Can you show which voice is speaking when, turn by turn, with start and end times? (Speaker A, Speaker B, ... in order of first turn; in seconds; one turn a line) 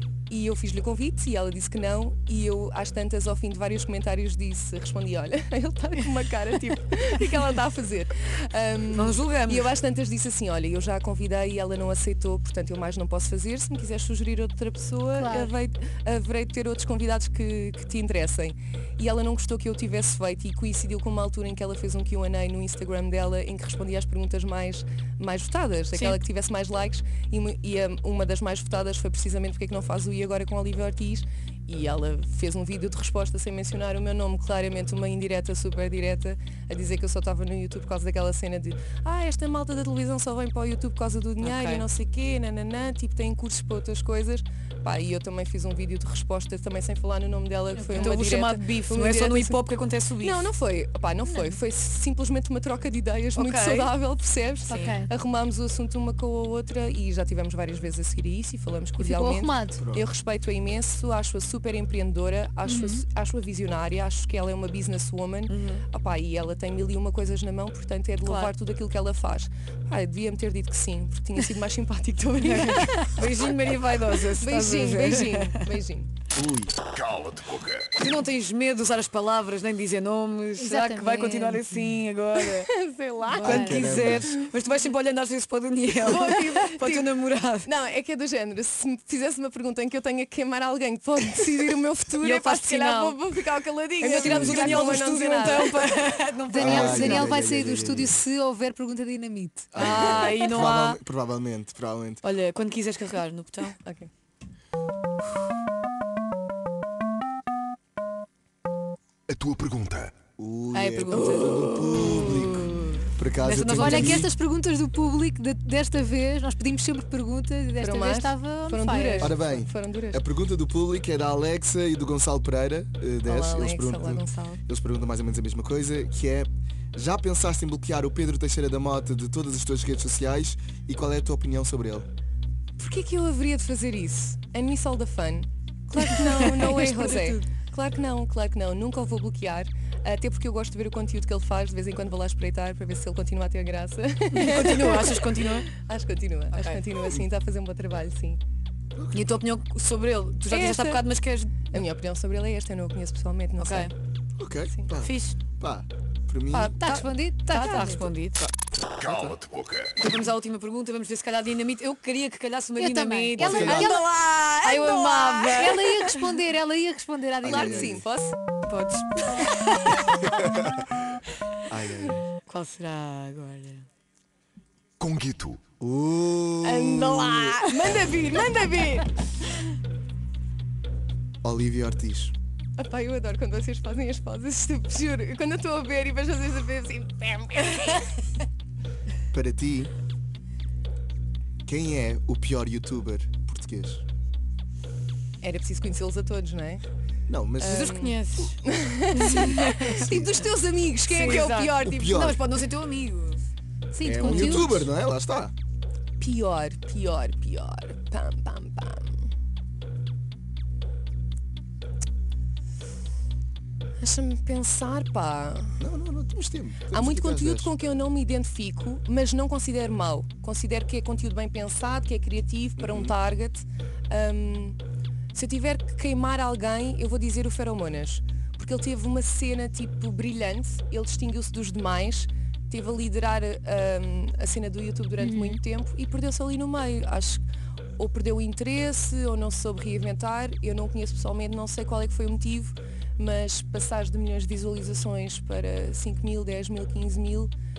Speaker A: 0.3-49.7
Speaker B: 8.9-9.7
Speaker C: 15.1-15.5
Speaker B: 25.9-26.2
Speaker B: 41.4-41.9
Speaker C: 47.7-48.3
Speaker B: 47.9-50.5
Speaker A: 50.2-73.2
Speaker C: 51.2-51.5
Speaker B: 53.3-53.9
Speaker B: 54.7-54.9
Speaker C: 54.7-55.1
Speaker C: 59.0-59.9
Speaker D: 59.8-60.1
Speaker C: 62.6-63.0
Speaker B: 65.5-65.8
Speaker B: 68.2-68.5
Speaker B: 72.4-75.7
Speaker A: 74.4-76.1
Speaker D: 76.3-76.7
Speaker E: 76.8-77.9
Speaker B: 77.9-82.7
Speaker C: 80.6-82.0
Speaker A: 82.4-83.7
Speaker C: 83.2-84.0
Speaker D: 83.4-84.4
Speaker B: 83.4-87.7
Speaker A: 86.0-96.0
Speaker B: 92.2-93.2
Speaker B: 94.0-97.4
Speaker D: 94.2-94.9
Speaker C: 96.5-99.9
Speaker D: 96.6-98.2
Speaker D: 99.7-102.2
Speaker B: 99.8-101.0
Speaker B: 102.2-103.8
Speaker A: 103.8-104.1
Speaker E: 109.3-110.2
Speaker D: 110.3-114.3
Speaker B: 110.7-114.3
Speaker C: 113.8-119.4
Speaker A: 117.8-120.2
Speaker D: 119.2-132.1
Speaker A: 123.2-124.6
Speaker A: 132.8-148.4
Speaker B: 136.0-137.5
Speaker B: 144.3-145.7
Speaker B: 146.5-146.8
Speaker D: 148.9-149.3
Speaker B: 149.1-151.8
Speaker A: 150.5-151.0
Speaker A: 151.7-153.9
Speaker B: 153.6-153.9
Speaker D: 154.4-156.8
Speaker B: 155.0-155.4
Speaker C: 156.5-158.1
Speaker B: 157.4-158.5
Speaker E: 159.0-159.9
Speaker B: 159.8-166.2
Speaker C: 162.8-164.1
Speaker D: 163.4-163.9
Speaker A: 163.4-165.7
Speaker C: 164.9-168.0
Speaker D: 167.4-168.0
Speaker A: 167.4-168.3
Speaker B: 168.7-170.2
Speaker D: 170.4-170.8
Speaker D: 171.7-172.2
Speaker B: 172.5-173.8
Speaker E: 175.0-175.6
Speaker D: 175.8-177.6
Speaker A: 176.6-179.3
Speaker D: 181.4-182.3
Speaker A: 182.8-188.2
Speaker D: 189.3-189.9
Speaker D: 191.6-194.0
Speaker A: 195.4-196.8
Speaker D: 197.3-198.1
Speaker A: 197.6-202.0
Speaker B: 197.6-198.6
Speaker B: 199.1-200.1
Speaker D: 199.8-200.3
Speaker B: 201.1-203.4
Speaker D: 201.4-202.4
Speaker C: 203.9-204.9
Speaker D: 204.0-205.5
Speaker A: 204.2-204.7
Speaker A: 206.2-209.2
Speaker A: 214.0-215.8
Speaker D: 215.8-217.7
Speaker A: 216.9-224.8
Speaker D: 222.8-223.1
Speaker A: 225.3-237.4
Speaker C: 235.2-235.6
Speaker A: 238.0-247.5